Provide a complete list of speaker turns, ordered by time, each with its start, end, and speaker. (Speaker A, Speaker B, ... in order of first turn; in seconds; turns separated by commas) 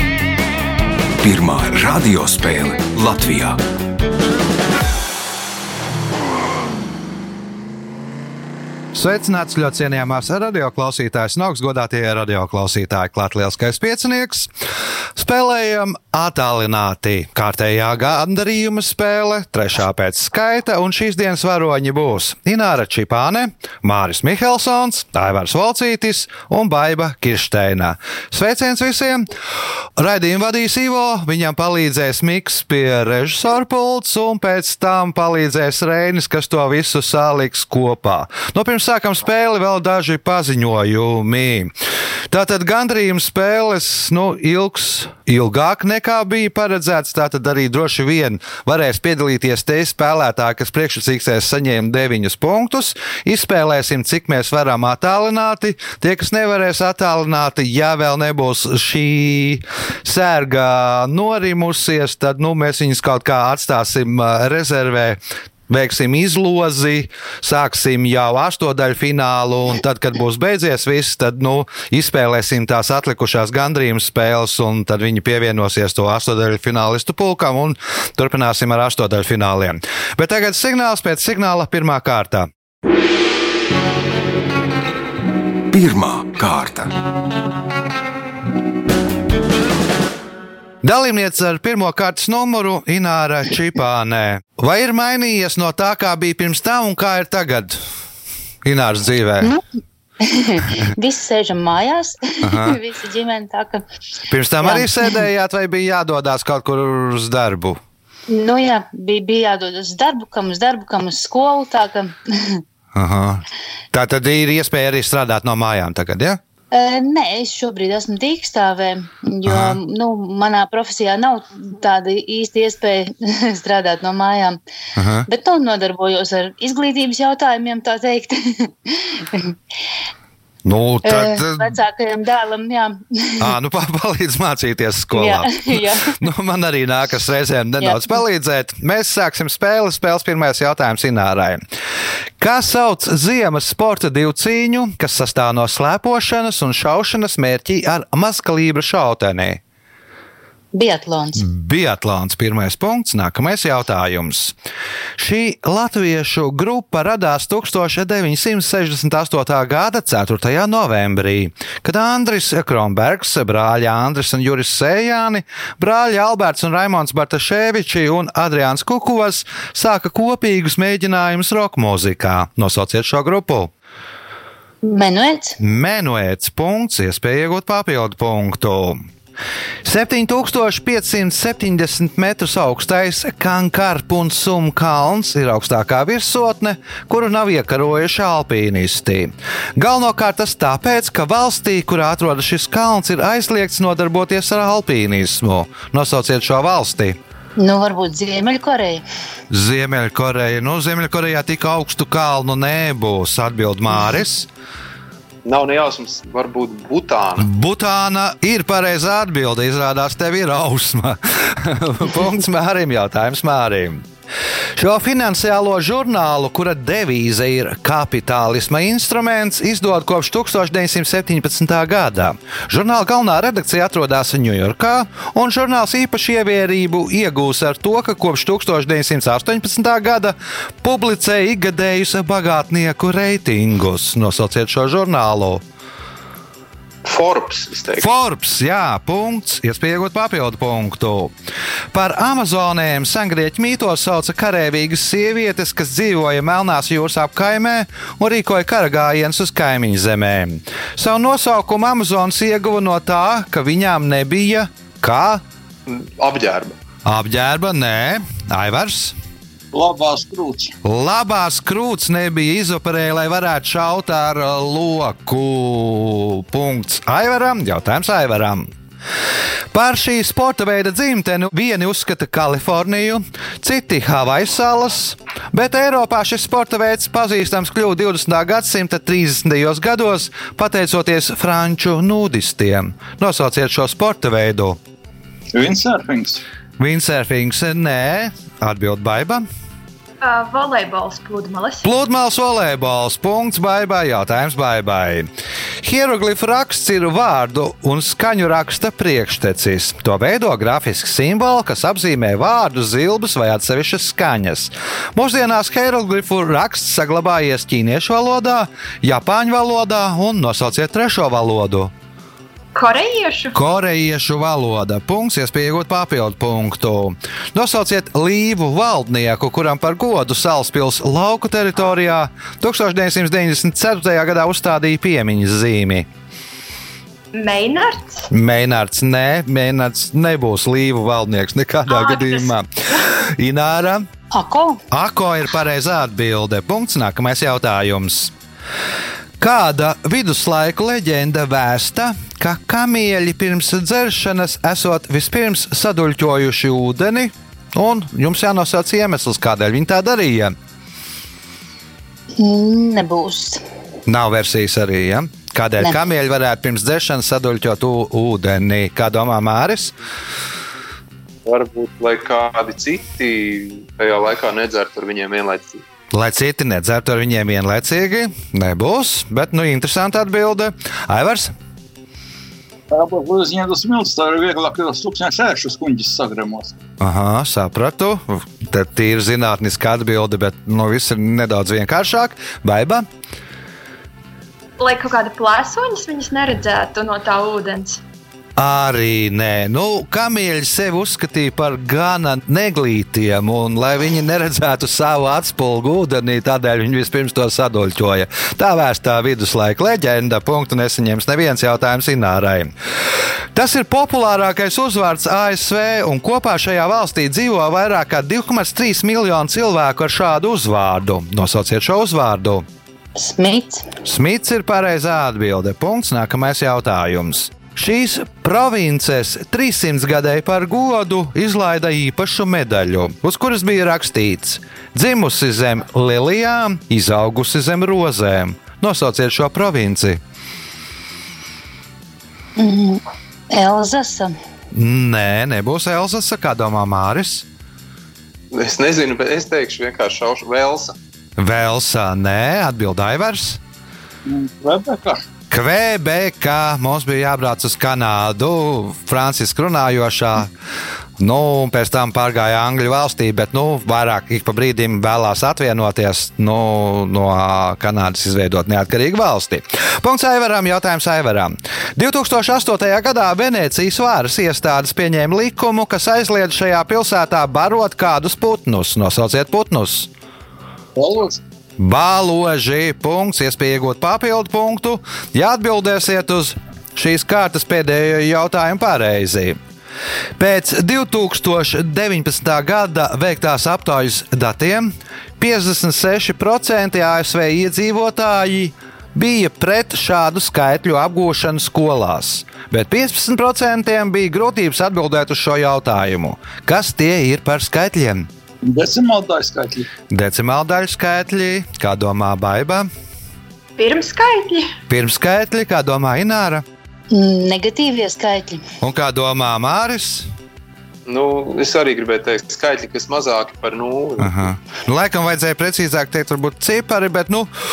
Speaker A: 1.2-3.6, Speaker B: 8.9-14.5, Speaker B: 15.2-29.3, Speaker B: 30.0-41.7, Speaker B: 42.3-82.5, Speaker A: 85.7-86.9, Speaker B: 90.8-97.8, Speaker B: 98.6-99.5, Speaker C: 100.2-103.8, Speaker B: 102.4-102.8, Speaker B: 104.3-107.8, Speaker C: 104.6-105.1, Speaker C: 108.3-112.6, Speaker B: 112.9-116.4, Speaker C: 116.7-124.6, Speaker B: 119.5-119.8, Speaker B: 125.0-125.3, Speaker C: 125.3-129.6, Speaker B: 130.6-131.8, Speaker C: 131.1-133.5, Speaker B: 133.4-141.6, Speaker C: 135.1-136.2, Speaker C: 137.8-138.2, Speaker B: 142.4-149.6, Speaker C: 150.7-151.5, Speaker B: 151.3-154.6, Speaker B: 155.2-173.7, Speaker C: 174.8-175.6, Speaker B: 175.6-179.0, Speaker B: 179.8-197.2, Speaker C: 197.6-199.0, Speaker B: 199.5-204.5, Speaker D: 205.4-207.5, Speaker B: 207.4-214.1, Speaker B: 214.8-235.6, Speaker D: 237.1-238.1, Speaker B: 238.0-241.3, Speaker B: 241.9-255.4, Speaker D: 255.9-256.7, Speaker B: 257.1-259.1, Speaker E: 259.7-260.8, Speaker B: 260.8-268.7, Speaker B: 269.7-284.8, Speaker E: 285.5-286.4, Speaker B: 286.8-289.4, Speaker F: 290.2-291.9, Speaker B: 291.8-295.3, Speaker B: 295.8-311.9, Speaker F: 312.8-313.6, Speaker B: 313.5-326.1, Speaker F: 327.3-328.3, Speaker B: 328.3-334.1, Speaker F: 331.9-333.1, Speaker C: 334.3-334.8, Speaker B: 334.9-338.3, Speaker B: 339.4-350.6, Speaker C: 352.4-353.6, Speaker B: 354.1-359.9, Speaker D: 361.4-365.8, Speaker B: 366.1-371.6, Speaker E: 372.9-376.7, Speaker B: 377.0-383.1, Speaker F: 384.8-388.0, Speaker B: 388.6-402.7, Speaker B: 403.5-412.6, Speaker C: 413.2-413.9, Speaker B: 414.1-430.2, Speaker C: 432.6-434.4, Speaker B: 434.7-437.5, Speaker D: 438.5-440.9, Speaker B: 441.4-443.6, Speaker E: 444.3-445.2, Speaker B: 445.5-450.5, Speaker B: 451.2-470.1, Speaker E: 471.0-471.4, Speaker B: 471.8-479.6, Speaker B: 480.4-498.3, Speaker E: 498.6-499.9, Speaker B: 500.1-502.9, Speaker F: 503.8-504.7, Speaker B: 504.9-506.6, Speaker C: 507.1-508.6, Speaker B: 508.8-510.3, Speaker D: 511.1-514.5, Speaker B: 514.2-517.5